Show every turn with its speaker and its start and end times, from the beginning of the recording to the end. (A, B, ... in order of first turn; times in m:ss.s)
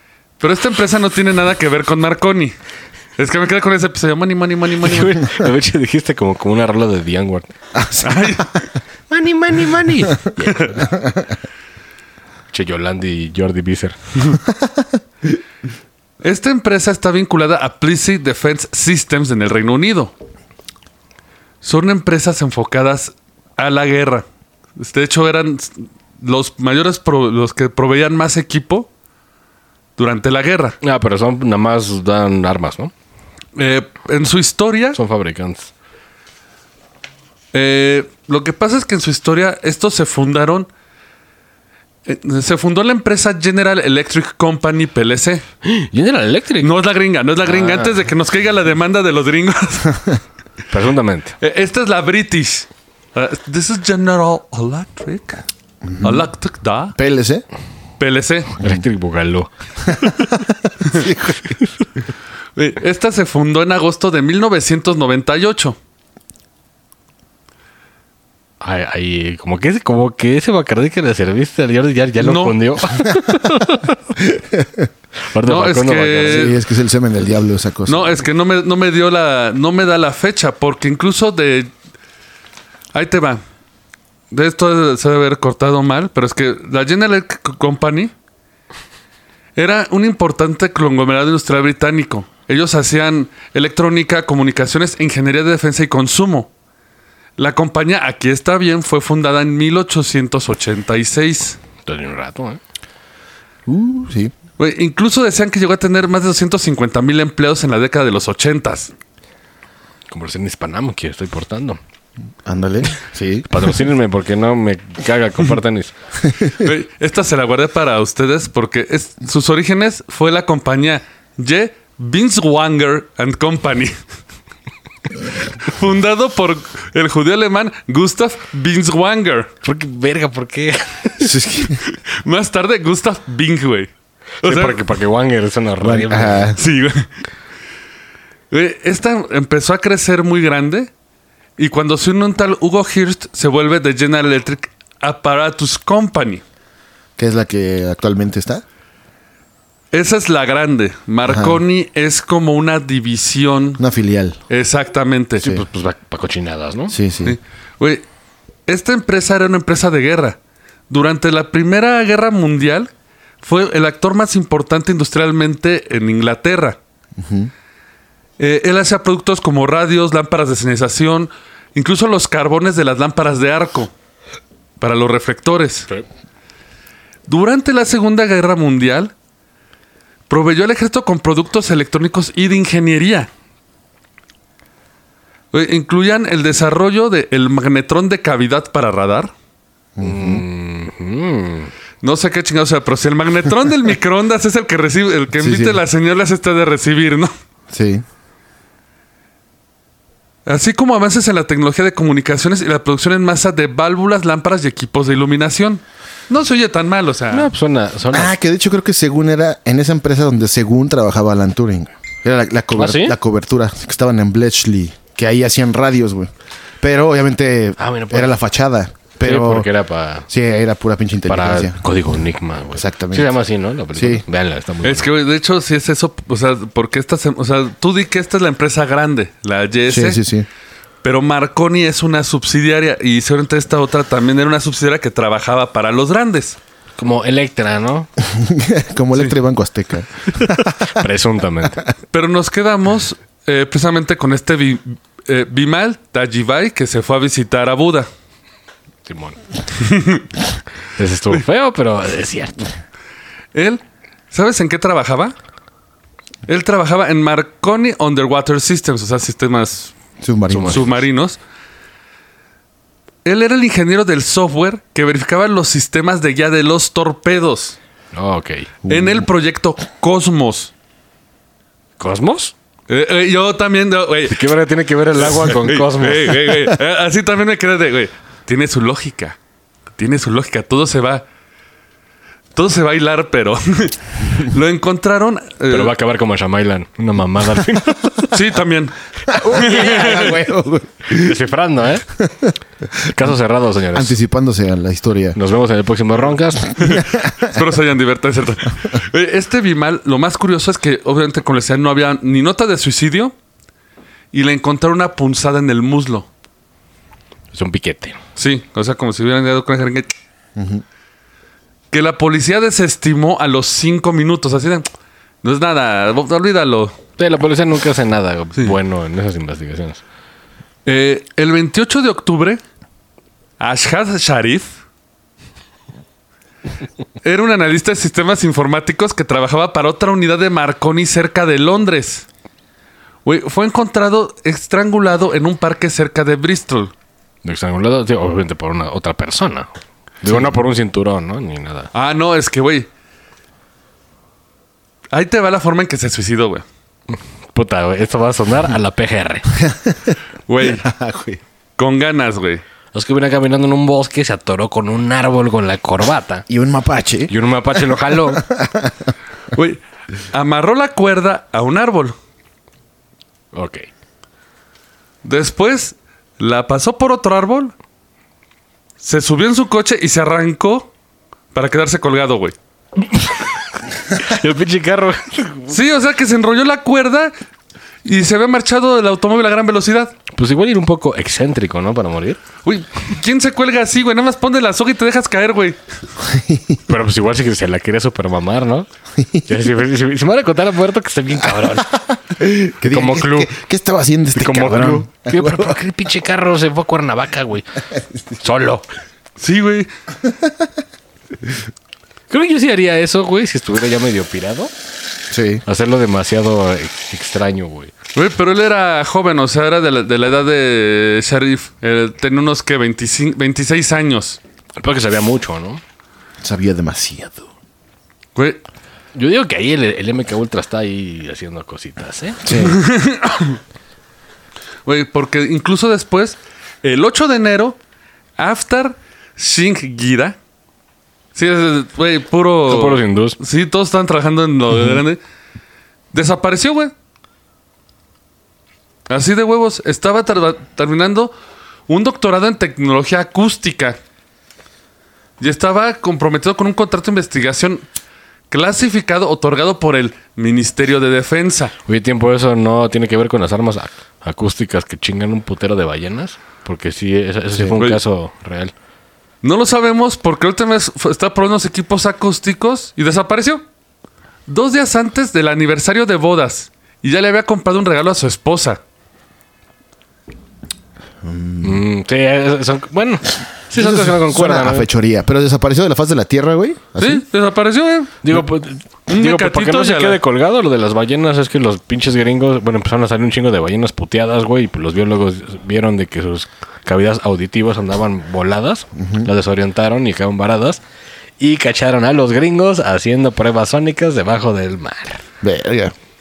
0:00.4-0:02.6 A
0:03.2-0:05.2 A
0:04.8-0:07.5 B
0:07.7-0:08.7 C
0:08.0-0:08.6 A
0:09.1-0:10.8 B
0:10.7-0:11.4 C
0:12.5-0:14.0 B
0:14.5-0:14.8 C
0:16.2-0:20.1 A
0:21.6-0:24.2 A
0:24.8-0:28.9 A
0:30.0-0:30.8 A
0:30.8-0:32.9 B
0:33.6-0:35.0 A
0:35.0-0:35.7 B
0:37.5-0:40.7 A
0:42.1-0:45.4 A
0:45.6-0:46.7 B
0:46.6-0:50.0 A
0:47.4-0:48.0 B
0:50.7-0:51.4 B
0:51.4-0:55.4 A
0:55.8-0:56.3 C
0:56.0-0:57.0 A
0:57.0-0:57.4 C
0:58.0-0:58.5 A
0:58.6-0:59.5 B
0:59.9-1:01.6 C
1:02.6-1:05.8 A
1:08.6-1:14.0 B
1:12.2-1:12.6 A
1:14.3-1:14.9 C
1:15.3-1:16.5 B
1:15.4-1:16.6 A
1:16.2-1:18.2 C
1:17.9-1:21.7 A
1:22.9-1:23.4 A
1:24.3-1:28.1 A
1:29.6-1:36.5 A
1:37.4-1:41.6 A
1:41.8-1:42.6 B
1:43.7-1:44.3 C
1:44.6-1:48.9 A
1:50.1-1:51.8 B
1:52.4-1:53.7 C
1:53.5-1:55.9 B
1:56.3-1:56.6 C
1:56.6-2:04.0 A
2:05.6-2:09.5 A
2:09.6-2:11.3 B
2:11.2-2:11.8 C
2:11.9-2:13.9 A
2:14.4-2:14.9 A
2:14.4-2:16.5 B
2:15.8-2:16.6 C
2:16.6-2:17.1 A
2:18.5-2:20.9 A
2:21.6-2:26.4 A
2:27.2-2:28.6 C
2:29.9-2:33.8 A
2:31.2-2:31.6 C
2:33.8-2:34.4 C
2:34.5-2:35.4 A
2:35.4-2:37.0 B
2:36.9-2:37.4 C
2:37.2-2:38.0 A
2:38.7-2:40.4 A
2:40.9-2:42.9 A
2:43.4-2:46.8 A
2:47.2-2:47.5 C
2:48.4-2:53.9 A
2:54.8-2:55.9 A
2:57.3-2:59.1 A
3:00.3-3:03.3 A
3:05.5-3:09.3 A
3:10.0-3:10.4 C
3:10.0-3:11.7 B
3:12.0-3:17.3 A
3:15.4-3:15.8 C
3:17.7-3:18.0 C
3:20.5-3:27.5 A
3:27.3-3:28.3 B
3:28.1-3:39.7 C
3:32.8-3:33.2 B
3:37.8-3:38.3 B
3:39.2-3:40.3 B
3:40.3-3:41.8 C
3:41.3-3:45.1 B
3:42.7-3:43.3 C
3:44.0-3:44.2 C
3:44.8-3:50.2 A
3:49.9-3:50.5 C
3:51.0-3:56.6 A
3:57.0-3:58.1 B
3:58.2-4:00.9 C
4:00.6-4:01.8 B
4:02.1-4:08.1 A
4:09.0-4:09.4 B
4:09.8-4:10.2 A
4:11.0-4:12.7 B
4:13.5-4:15.4 A
4:16.5-4:19.9 A
4:20.2-4:21.0 C
4:20.5-4:20.9 B
4:20.7-4:21.4 A
4:23.2-4:27.8 A
4:28.1-4:28.7 B
4:28.8-4:29.3 C
4:28.9-4:30.7 A
4:32.0-4:32.5 B
4:32.9-4:34.5 A
4:34.3-4:36.6 B
4:35.2-4:39.4 A
4:40.0-4:41.2 A
4:42.6-4:45.9 A
4:45.7-4:48.3 B
4:48.3-4:50.4 A
4:49.3-4:51.4 C
4:51.1-4:52.1 B
4:52.2-4:52.6 C
4:53.1-4:54.2 B
4:53.9-4:55.4 C
4:55.4-4:56.7 B
4:56.8-4:57.4 C
4:56.8-5:03.3 A
5:04.3-5:06.3 A
5:07.5-5:08.2 B
5:08.4-5:10.1 A
5:10.6-5:10.8 C
5:11.9-5:14.9 A
5:15.4-5:17.0 A
5:17.2-5:20.0 B
5:20.9-5:22.6 A
5:23.6-5:24.8 A
5:27.2-5:32.2 A
5:33.2-5:36.9 A
5:37.4-5:39.7 B
5:40.2-5:41.9 B
5:41.9-5:42.9 A
5:45.1-5:46.6 A
5:47.1-5:49.5 B
5:49.6-5:51.4 C
5:50.5-5:50.8 A
5:51.8-5:52.6 A
5:52.9-5:56.5 B
5:56.5-5:59.1 C
5:57.3-5:58.4 B
5:59.5-5:59.8 A
6:00.3-6:02.2 A
6:03.5-6:03.9 B
6:05.2-6:07.7 A
6:09.0-6:10.9 A
6:11.5-6:12.6 A
6:14.1-6:15.8 B
6:15.7-6:17.3 A
6:18.0-6:20.2 A
6:20.3-6:22.4 B
6:22.6-6:25.8 A
6:26.2-6:26.8 C
6:26.9-6:28.9 B
6:29.2-6:29.5 C
6:29.5-6:32.0 B
6:31.6-6:35.8 C
6:32.8-6:33.6 B
6:34.3-6:37.8 B
6:38.4-6:38.9 B
6:39.4-6:39.9 A
6:42.3-6:44.7 B
6:45.3-6:45.6 C
6:45.7-6:47.9 B
6:48.1-6:54.4 A
6:54.8-6:55.8 B
6:56.4-6:57.5 C
6:58.4-6:58.6 A
6:59.2-7:02.6 B
7:02.4-7:02.8 C
7:02.6-7:03.6 A
7:04.9-7:07.8 A
7:08.4-7:10.4 A
7:11.4-7:15.2 A
7:12.7-7:13.4 B
7:16.1-7:16.9 A
7:19.1-7:21.3 A
7:21.9-7:24.0 A
7:25.4-7:27.8 A
7:28.5-7:31.7 A
7:31.9-7:38.7 B
7:39.4-7:43.6 A
7:44.5-7:48.8 A
7:51.2-7:51.8 C
7:51.6-7:54.9 B
7:53.7-7:57.2 C
7:57.0-7:58.4 A
7:58.2-8:10.8 B
7:59.1-8:00.2 A
8:09.0-8:09.3 C
8:11.4-8:15.2 B
8:15.4-8:15.9 C